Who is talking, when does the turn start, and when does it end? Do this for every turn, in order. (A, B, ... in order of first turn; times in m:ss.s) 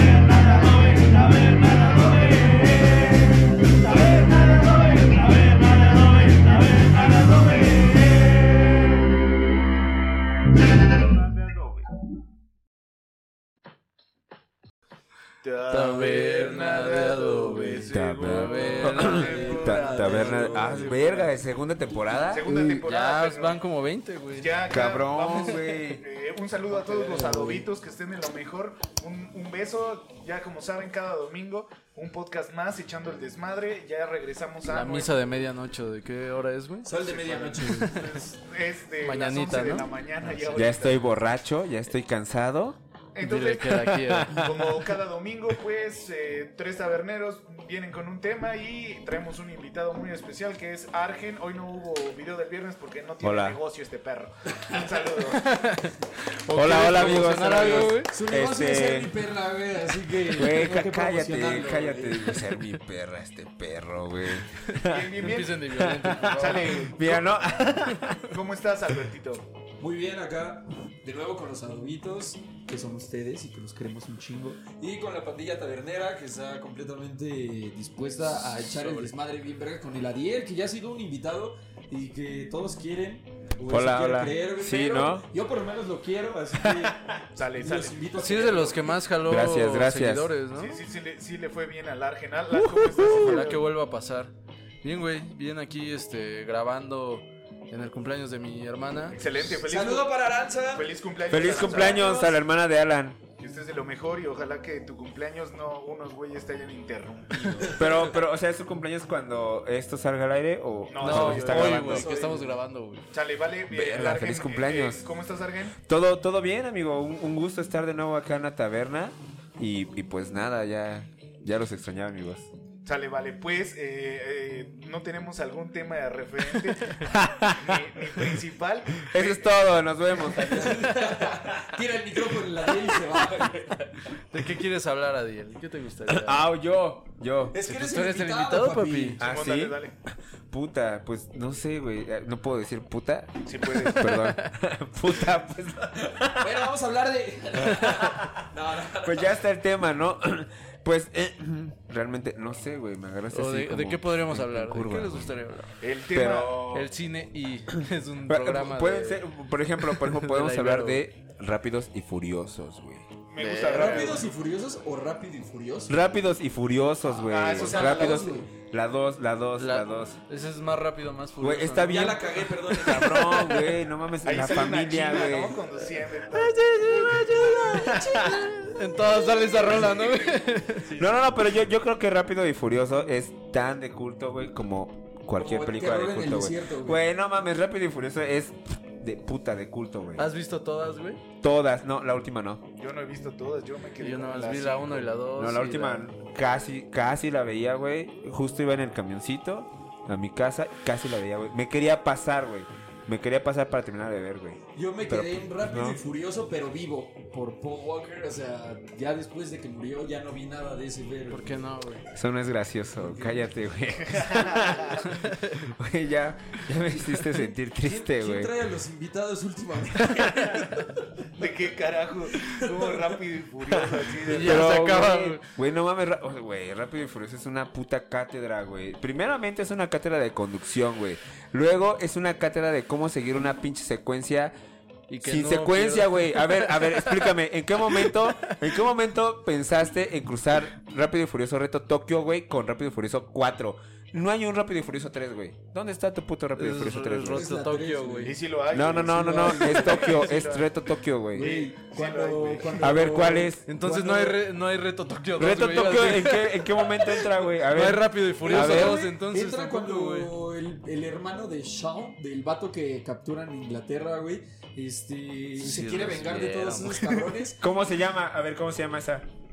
0:01.9-0:02.5 A
0:04.1-0:07.9 A
0:11.4-0:11.8 A
0:15.4-0:21.3 A
0:15.7-0:19.5 B
0:17.9-0:22.5 C
0:19.0-0:21.1 D
0:22.3-0:23.6 A
0:22.5-0:24.6 B
0:22.5-0:22.8 D
0:24.3-0:35.1 A
0:24.7-0:26.0 C
0:25.3-0:25.6 B
0:26.7-0:27.6 B
0:26.9-0:27.6 D
0:34.7-0:36.9 B
0:36.8-0:38.1 D
0:36.9-0:41.0 A
0:37.6-0:38.2 B
0:39.0-0:40.6 B
0:40.5-0:42.8 C
0:43.1-0:55.5 A
0:43.2-0:44.4 B
0:43.7-0:44.8 C
0:53.2-0:53.6 C
0:55.3-0:58.1 B
0:56.5-0:59.2 C
0:58.0-1:02.5 D
1:00.1-1:05.2 C
1:04.7-1:06.9 B
1:04.8-1:05.6 A
1:05.7-1:08.3 C
1:06.2-1:07.4 A
1:08.3-1:09.5 A
1:09.8-1:28.9 D
1:18.3-1:19.1 B
1:23.6-1:25.2 C
1:26.7-1:26.9 C
1:27.3-1:29.0 A
1:28.2-1:30.8 B
1:29.2-1:30.3 C
1:30.5-1:33.7 A
1:32.5-1:33.4 C
1:32.8-1:39.2 B
1:39.1-1:40.2 A
1:39.4-1:42.4 D
1:40.7-1:42.2 A
1:41.3-1:43.2 C
1:43.4-1:48.0 A
1:47.4-1:47.9 B
1:47.8-1:52.1 C
1:50.9-1:52.4 A
1:51.0-1:53.0 B
1:51.8-1:52.6 D
1:53.1-1:55.8 A
1:53.7-1:55.1 C
1:55.8-2:02.5 C
2:02.8-2:09.6 A
2:07.0-2:08.4 C
2:09.0-2:11.7 C
2:10.3-2:14.1 D
2:14.3-2:16.5 B
2:16.1-2:17.6 C
2:17.5-2:19.2 D
2:17.6-2:19.2 B
2:19.2-2:19.9 A
2:19.2-2:26.7 C
2:23.4-2:24.3 A
2:24.0-2:24.5 B
2:26.3-2:29.4 D
2:27.7-2:28.0 B
2:29.0-2:35.4 C
2:33.3-2:35.7 B
2:35.8-2:36.9 A
2:36.1-2:36.6 C
2:36.7-2:39.2 B
2:38.3-2:43.1 C
2:39.8-2:41.0 B
2:43.3-2:44.3 A
2:43.4-2:44.2 B
2:43.7-2:46.0 D
2:45.9-2:50.2 C
2:47.0-2:48.3 A
2:47.4-2:48.5 D
2:49.6-2:53.6 B
2:51.4-2:55.6 C
2:51.8-2:53.7 D
2:54.2-2:57.0 A
2:55.8-2:58.0 B
2:57.1-2:58.5 C
2:57.6-2:58.8 D
2:58.6-3:00.9 B
2:59.3-3:00.0 D
3:00.9-3:10.3 C
3:05.3-3:07.0 D
3:10.2-3:11.2 B
3:11.4-3:12.6 C
3:12.8-3:15.2 A
3:14.0-3:16.1 B
3:15.4-3:26.0 C
3:24.7-3:31.7 D
3:31.3-3:32.1 B
3:32.1-3:38.5 C
3:33.0-3:33.5 D
3:33.9-3:35.2 A
3:35.0-3:35.6 B
3:37.2-3:41.1 D
3:41.4-3:44.8 A
3:42.3-3:43.0 D
3:44.0-3:54.5 C
3:44.2-3:45.4 B
3:55.1-3:58.7 B
3:55.2-4:07.5 C
4:06.6-4:08.4 B
4:07.3-4:08.4 D
4:08.2-4:10.7 A
4:08.7-4:11.5 C
4:08.9-4:10.2 D
4:11.3-4:14.4 D
4:11.3-4:12.9 A
4:12.8-4:13.6 C
4:13.7-4:20.3 B
4:15.4-4:19.1 C
4:18.4-4:27.6 D
4:25.6-4:27.4 B
4:27.6-4:29.3 C